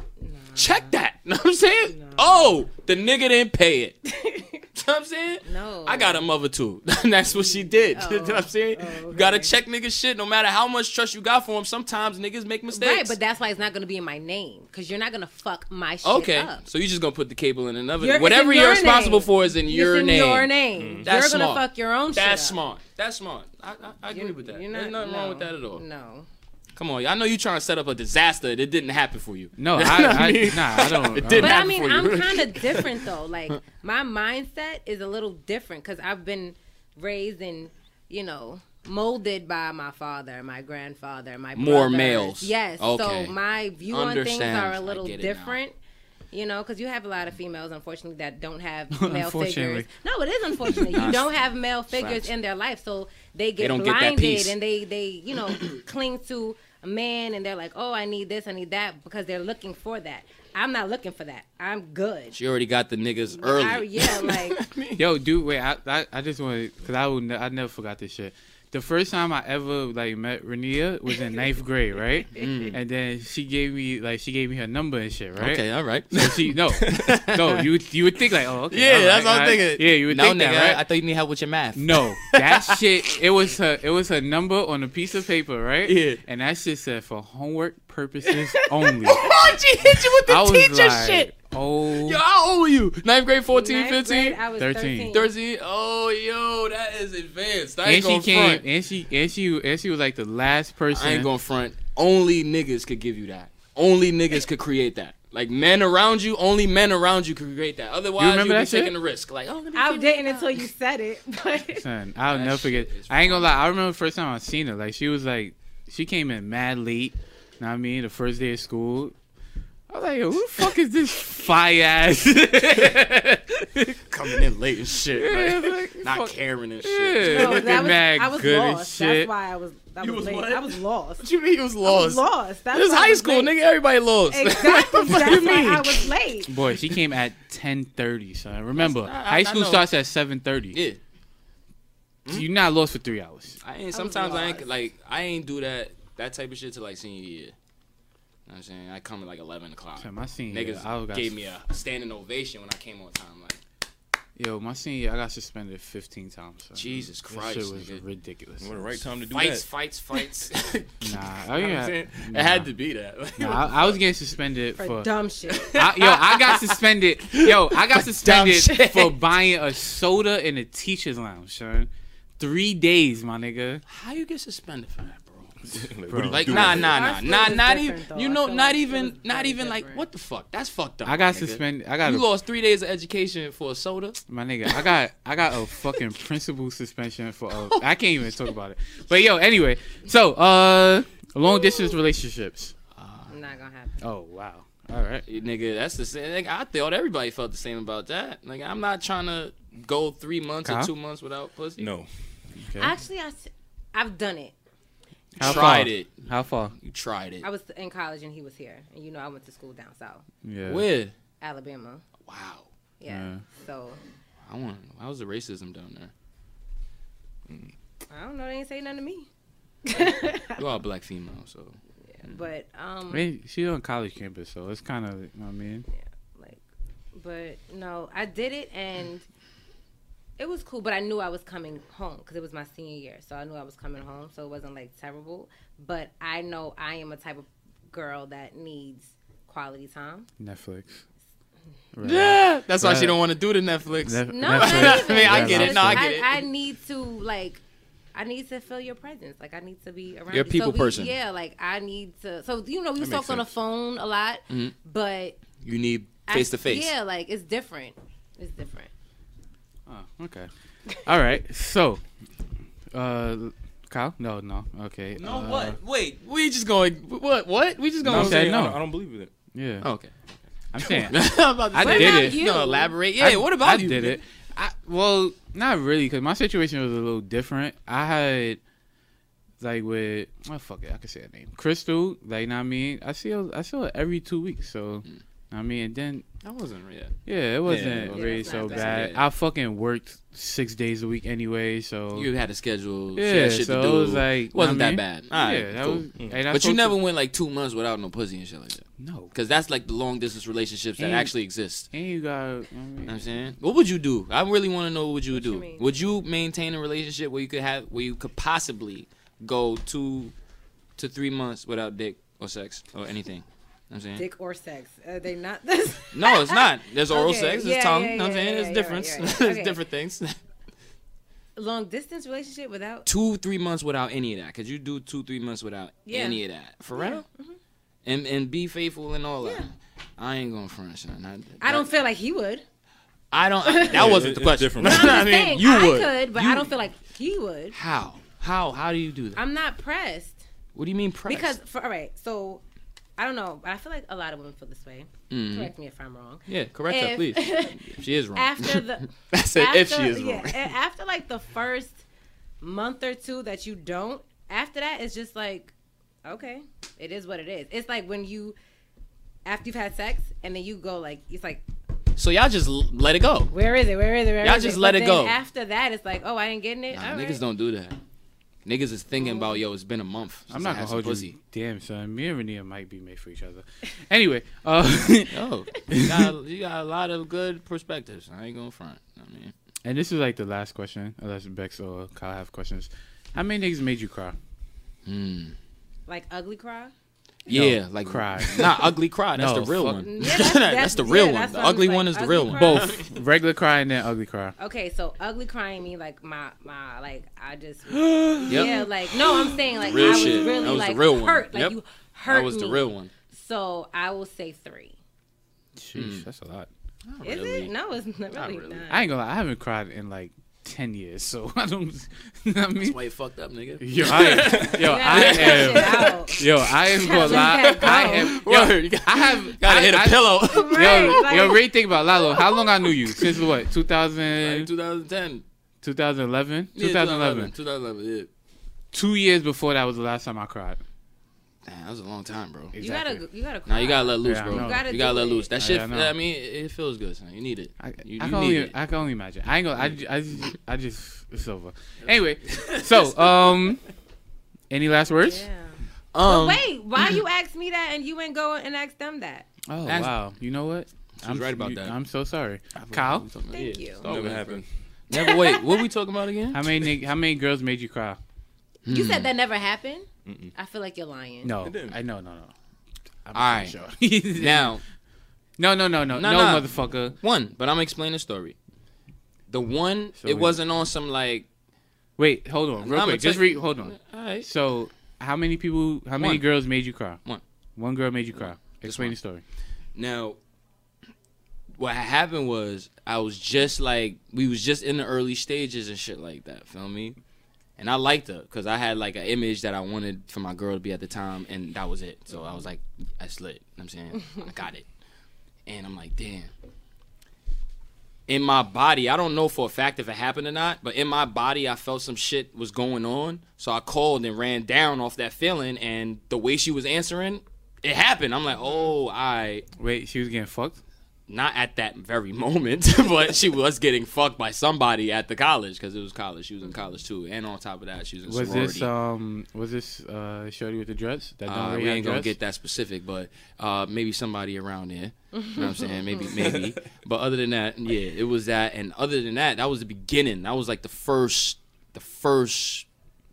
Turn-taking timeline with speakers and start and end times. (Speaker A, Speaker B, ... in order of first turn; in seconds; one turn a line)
Speaker A: 0.2-0.9
Speaker B: 0.6-4.0
Speaker A: 1.9-2.6
Speaker A: 4.0-4.6
Speaker B: 4.7-13.2
Speaker A: 5.4-6.2
Speaker A: 7.3-9.5
Speaker A: 12.7-16.6
Speaker B: 16.0-20.5
Speaker A: 18.0-22.6
Speaker C: 20.8-21.1
Speaker B: 21.0-25.8
Speaker A: 24.1-26.3
Speaker B: 26.7-33.5
Speaker D: 29.6-31.7
Speaker A: 31.3-45.7
Speaker B: 41.5-43.3
Speaker B: 43.9-45.6
Speaker A: 46.3-62.4
Speaker D: 48.9-49.9
Speaker B: 50.7-52.3
Speaker B: 53.6-54.5
Speaker B: 62.3-65.0
Speaker A: 63.4-64.6
Speaker D: 65.0-80.8
Speaker B: 72.3-72.8
Speaker B: 75.4-77.7
Speaker B: 78.7-82.8
Speaker D: 81.7-89.3
Speaker B: 85.8-86.2
Speaker B: 89.0-91.3
Speaker D: 90.2-92.2
Speaker B: 91.9-94.4
Speaker A: 93.5-95.3
Speaker D: 94.6-95.1
Speaker B: 95.1-98.6
Speaker D: 97.8-101.3
Speaker B: 100.9-110.6
Speaker D: 108.2-108.9
Speaker A: 109.7-111.8
Speaker D: 111.7-119.1
Speaker B: 112.3-113.6
Speaker D: 119.9-124.0
Speaker B: 124.1-128.0
Speaker D: 125.1-129.3
Speaker A: 127.2-131.2
Speaker B: 130.0-136.1
Speaker A: 131.8-133.5
Speaker A: 134.3-136.5
Speaker D: 136.4-140.8
Speaker B: 138.8-139.9
Speaker B: 140.7-141.0
Speaker D: 142.3-143.6
Speaker B: 143.6-147.5
Speaker A: 143.9-144.7
Speaker B: 148.5-153.6
Speaker D: 150.0-151.4
Speaker D: 154.3-159.0
Speaker B: 156.8-158.0
Speaker C: 158.6-159.6
Speaker B: 159.3-164.0
Speaker D: 161.0-162.7
Speaker D: 163.4-165.1
Speaker A: 164.8-165.8
Speaker B: 165.5-166.8
Speaker D: 165.7-173.8
Speaker B: 167.3-169.2
Speaker B: 173.9-175.6
Speaker C: 175.7-177.0
Speaker D: 176.1-176.8
Speaker B: 176.2-184.2
Speaker A: 176.7-180.0
Speaker D: 181.0-182.2
Speaker D: 184.3-192.7
Speaker B: 192.9-193.3
Speaker A: 193.3-194.0
Speaker D: 194.0-195.2
Speaker B: 195.3-201.9
Speaker D: 200.6-200.9
Speaker C: 201.8-202.1
Speaker D: 202.6-202.9
Speaker A: 202.8-204.5
Speaker D: 205.3-206.7
Speaker B: 205.4-206.2
Speaker B: 206.8-207.4
Speaker A: 207.4-210.2
Speaker D: 210.4-210.8
Speaker B: 210.7-211.1
Speaker A: 211.4-212.0
Speaker B: 212.2-212.7
Speaker A: 213.0-214.0
Speaker D: 213.1-213.4
Speaker B: 214.4-216.1
Speaker A: 218.1-219.3
Speaker A: 219.8-220.6
Speaker B: 220.6-222.3
Speaker A: 222.2-223.3
Speaker D: 223.1-225.8
Speaker A: 226.3-226.6
Speaker A: 227.1-229.2
Speaker A: 230.4-240.3
Speaker D: 240.4-241.0
Speaker D: 241.9-243.2
Speaker B: 242.0-246.4
Speaker D: 244.0-246.1
Speaker A: 244.3-247.6
Speaker A: 248.1-255.4
Speaker B: 250.3-251.1
Speaker B: 255.6-256.9
Speaker A: 256.3-258.9
Speaker D: 259.9-262.0
Speaker D: 262.9-265.8
Speaker B: 265.2-268.6
Speaker C: 268.0-269.3
Speaker D: 268.0-268.8
Speaker D: 269.5-269.9
Speaker B: 269.8-270.1
Speaker D: 270.7-272.4
Speaker B: 270.8-274.2
Speaker A: 271.8-272.9
Speaker D: 273.2-278.6
Speaker D: 279.6-286.2
Speaker B: 286.4-289.2
Speaker D: 287.2-292.3
Speaker A: 288.1-289.1
Speaker B: 292.1-301.9
Speaker D: 293.1-297.0
Speaker D: 299.0-299.3
Speaker D: 301.0-301.3
Speaker D: 301.9-303.2
Speaker B: 303.1-310.3
Speaker A: 305.3-306.0
Speaker B: 311.0-314.2
Speaker A: 314.1-319.8
Speaker B: 316.1-320.4
Speaker A: 321.6-323.1
Speaker B: 323.1-327.2
Speaker A: 326.1-326.4
Speaker A: 326.9-327.6
Speaker B: 328.0-331.9
Speaker A: 329.4-329.7
Speaker A: 331.6-332.6
Speaker B: 333.3-336.7
Speaker A: 333.6-337.8
Speaker C: 333.9-335.3
Speaker B: 337.7-339.4
Speaker A: 339.3-340.4
Speaker B: 340.7-341.6
Speaker A: 341.3-342.6
Speaker A: 343.2-352.0
Speaker B: 345.3-345.7
Speaker B: 346.5-350.7
Speaker A: 352.6-355.7
Speaker A: 356.2-358.6
Speaker A: 359.4-361.6
Speaker B: 362.2-363.5
Speaker A: 363.5-367.4
Speaker B: 364.4-365.4
Speaker B: 366.9-368.0
Speaker B: 368.6-371.3
Speaker A: 369.1-369.6
Speaker D: 370.5-376.3
Speaker B: 375.3-379.5
Speaker D: 379.8-384.4
Speaker B: 385.1-385.5
Speaker A: 386.1-386.9
Speaker B: 387.4-393.1
Speaker D: 387.5-390.0
Speaker A: 390.0-393.0
Speaker D: 392.5-394.5
Speaker A: 394.6-404.9
Speaker B: 397.9-401.8
Speaker B: 402.3-403.1
Speaker D: 405.8-406.7
Speaker B: 405.9-406.2
Speaker B: 407.1-407.7
Speaker A: 407.2-409.1
Speaker B: 408.3-408.8
Speaker D: 408.9-413.0
Speaker B: 412.8-421.6
Speaker D: 413.8-424.7
Speaker A: 414.4-418.4
Speaker A: 420.5-421.7
Speaker B: 424.3-425.4
Speaker D: 425.8-427.5
Speaker B: 426.7-428.3
Speaker D: 428.9-430.8
Speaker B: 431.6-432.8
Speaker D: 432.7-433.2
Speaker A: 432.8-435.5
Speaker B: 433.6-438.7
Speaker D: 434.2-434.8
Speaker D: 435.6-436.1
Speaker D: 437.8-443.8
Speaker B: 442.5-443.5
Speaker D: 444.7-445.4
Speaker A: 445.2-449.5
Speaker B: 446.1-447.2
Speaker D: 449.7-453.3
Speaker B: 449.8-450.1
Speaker B: 451.2-451.9
Speaker B: 452.7-456.7
Speaker A: 453.5-454.0
Speaker C: 454.0-454.6
Speaker A: 455.1-455.8
Speaker D: 456.5-458.2
Speaker B: 458.8-459.3
Speaker A: 458.9-461.5
Speaker C: 460.2-460.5
Speaker D: 461.4-462.5
Speaker C: 461.6-462.0
Speaker D: 463.2-464.8
Speaker B: 463.3-463.7
Speaker B: 464.4-464.8
Speaker D: 465.6-467.1
Speaker B: 466.1-466.7
Speaker B: 467.2-468.6
Speaker B: 469.5-471.5
Speaker D: 470.2-470.6
Speaker D: 472.2-477.2
Speaker B: 472.8-474.5
Speaker B: 476.1-476.4
Speaker D: 477.8-479.4
Speaker B: 478.4-479.1
Speaker B: 479.9-480.4
Speaker B: 481.8-487.2
Speaker B: 487.8-494.9
Speaker B: 495.6-496.5
Speaker B: 498.3-509.6
Speaker A: 508.6-508.9
Speaker D: 509.8-510.8
Speaker B: 511.3-518.9
Speaker D: 518.3-522.3
Speaker B: 521.5-532.9
Speaker A: 525.3-526.2